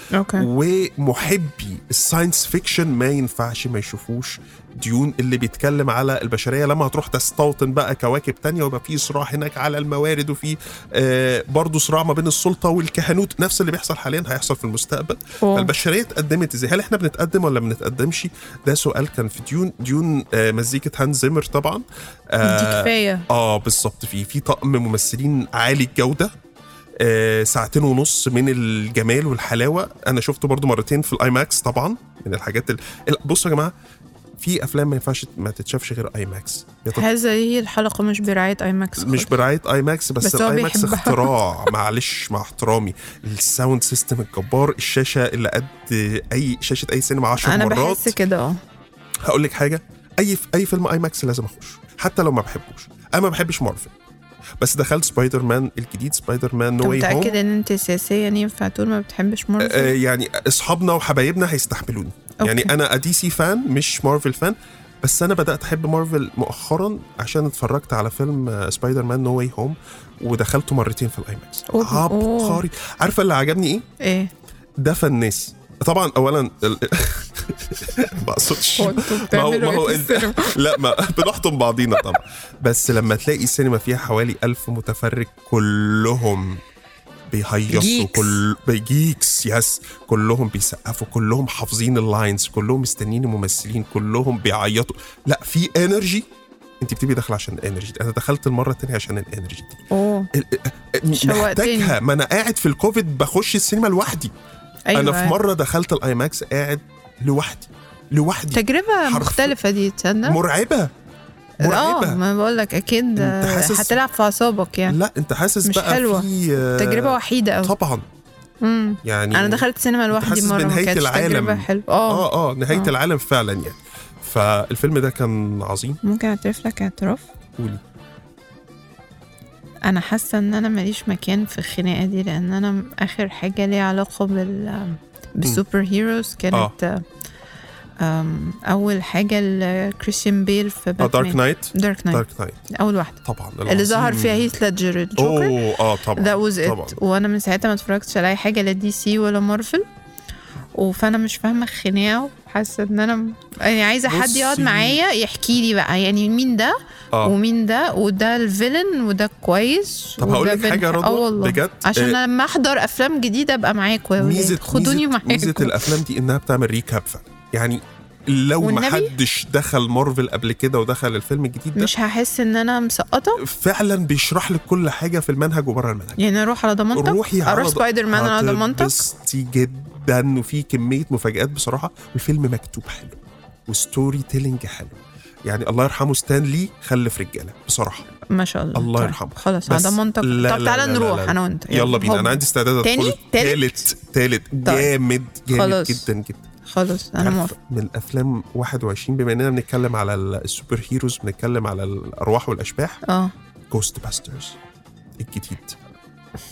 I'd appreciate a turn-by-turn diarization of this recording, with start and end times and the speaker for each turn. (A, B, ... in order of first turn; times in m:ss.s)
0:00.1-0:00.5 A
0:00.3-0:26.3 B
0:15.4-0:15.7 A
0:22.4-0:23.3 A
0:27.0-0:33.7 B
0:34.4-0:37.1 B
0:36.9-0:39.3 A
0:39.0-0:48.2 B
0:40.2-0:41.7 A
0:47.4-0:48.6 A
0:49.2-0:53.9 B
0:54.6-0:57.4 B
0:56.8-0:59.9 A
0:59.6-1:13.8 B
1:02.4-1:02.7 A
1:11.7-1:12.6 A
1:14.0-1:14.3 A
1:14.8-1:26.6 B
1:18.8-1:20.8 A
1:27.3-1:36.3 B
1:27.7-1:28.4 A
1:36.8-1:39.8 B
1:39.9-1:40.3 A
1:40.3-1:44.3 B
1:41.1-1:42.0 A
1:44.9-1:45.4 A
1:44.9-1:49.6 B
1:48.5-1:50.4 A
1:50.2-1:50.9 B
1:51.6-1:52.2 B
1:51.6-1:55.0 A
1:53.2-1:54.0 B
1:54.9-1:58.1 B
1:55.6-1:57.7 A
1:58.6-2:02.9 A
1:59.0-2:06.0 B
2:06.0-2:07.3 A
2:09.9-2:17.0 A
2:18.0-2:25.6 A
2:21.0-2:22.6 B
2:23.2-2:24.5 B
2:25.2-2:27.0 B
2:26.2-2:29.8 A
2:30.7-2:46.0 A
2:34.1-2:35.0 B
2:40.2-2:42.2 B
2:44.2-2:51.9 B
2:48.6-2:49.1 A
2:51.8-2:53.4 A
2:53.4-2:56.2 B
2:56.2-2:59.0 A
2:56.9-3:08.1 B
3:08.2-3:13.8 A
3:08.8-3:16.5 B
3:14.6-3:14.9 A
3:15.5-3:16.1 A
3:16.7-3:17.5 A
3:17.2-3:23.0 B
3:23.1-3:23.3 A
3:23.7-3:24.6 B
3:25.2-3:25.8 B